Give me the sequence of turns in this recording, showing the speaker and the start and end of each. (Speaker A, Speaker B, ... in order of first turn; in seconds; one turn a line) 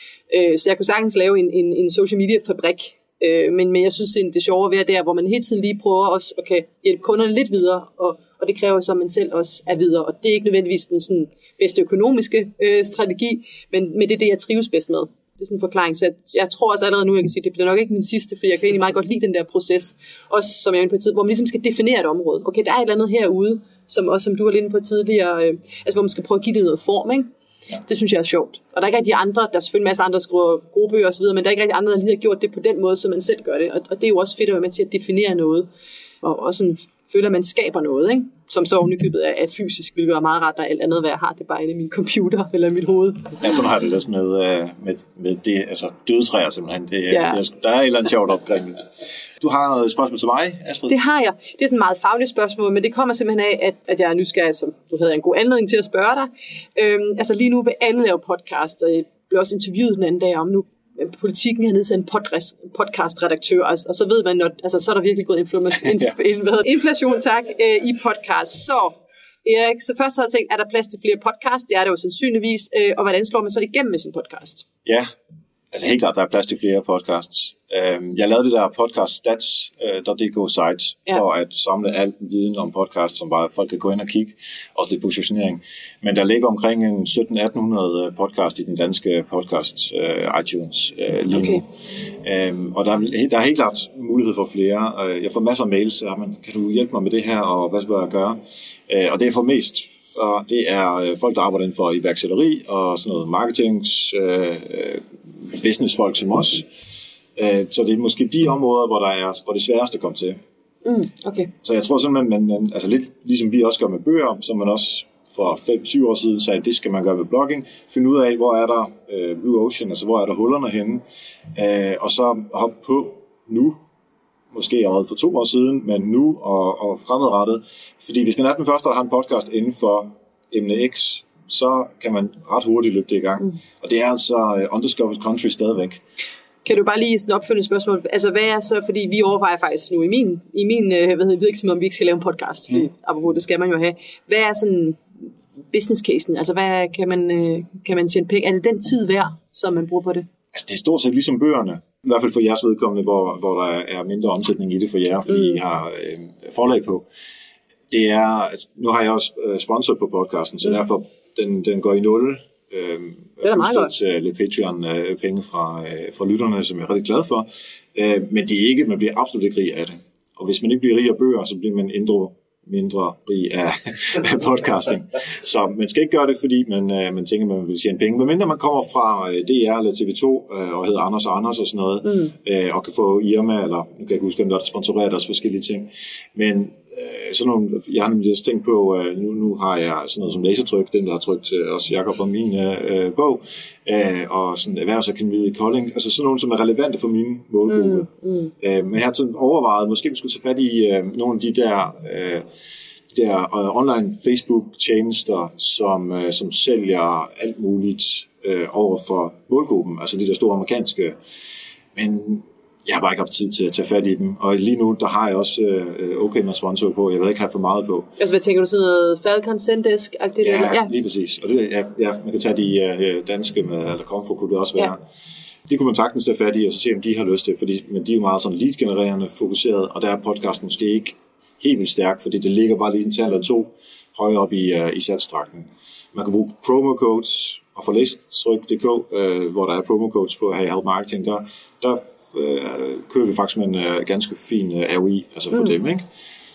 Speaker A: 0.3-27.3
Speaker A: 27.9-35.7
Speaker A: 36.2-43.4
Speaker B: 43.4-48.9
Speaker A: 47.1-47.4
Speaker B: 49.4-50.9
Speaker A: 50.9-74.7
Speaker B: 75.7-91.7
Speaker A: 91.3-91.6
Speaker B: 92.2-106.7
Speaker B: 107.3-110.4
Speaker A: 110.8-111.5
Speaker B: 111.6-121.0
Speaker B: 121.5-123.8
Speaker B: 124.5-136.0
Speaker A: 136.6-150.3
Speaker B: 150.5-157.1
Speaker A: 155.3-155.6
Speaker B: 157.9-202.4
Speaker A: 163.4-163.9
Speaker A: 182.0-182.3
Speaker A: 197.7-198.5
Speaker B: 203.1-211.2
Speaker B: 211.9-218.1
Speaker A: 218.2-220.9
Speaker B: 220.4-225.0
Speaker B: 225.7-246.0